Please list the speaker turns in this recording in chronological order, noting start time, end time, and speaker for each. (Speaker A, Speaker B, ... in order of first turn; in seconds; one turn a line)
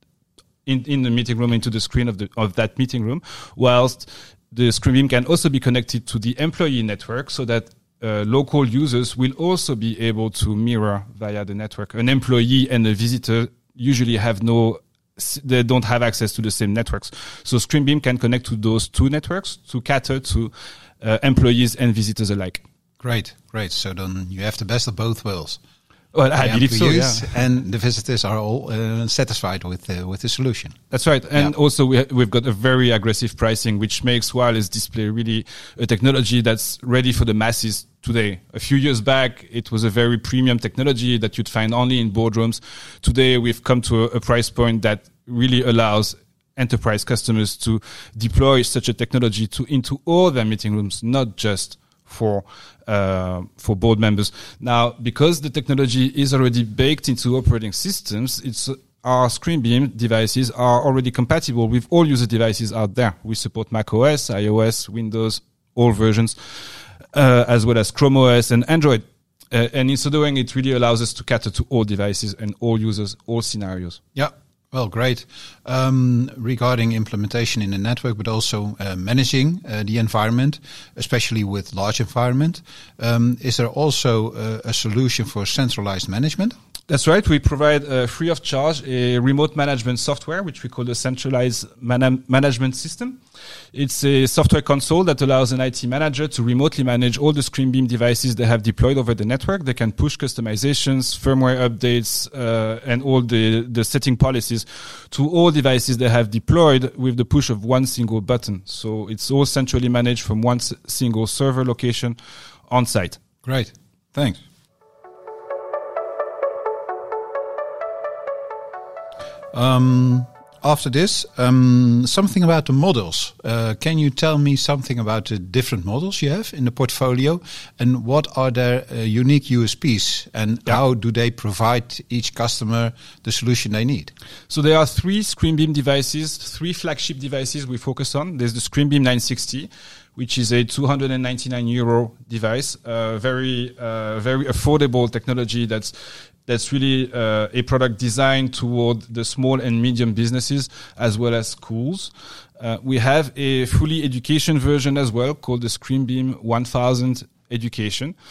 Speaker A: 0.7-22.6
Speaker B: 23.0-25.6
Speaker A: 26.1-27.4
Speaker B: 26.4-30.8
Speaker A: 30.9-66.4
Speaker A: 67.1-74.0
Speaker B: 74.1-86.6
Speaker A: 86.9-93.2
Speaker A: 93.7-112.2
Speaker A: 112.7-113.2
Speaker B: 113.4-114.4
Speaker B: 119.5-134.1
Speaker A: 134.5-145.9
Speaker A: 146.4-158.1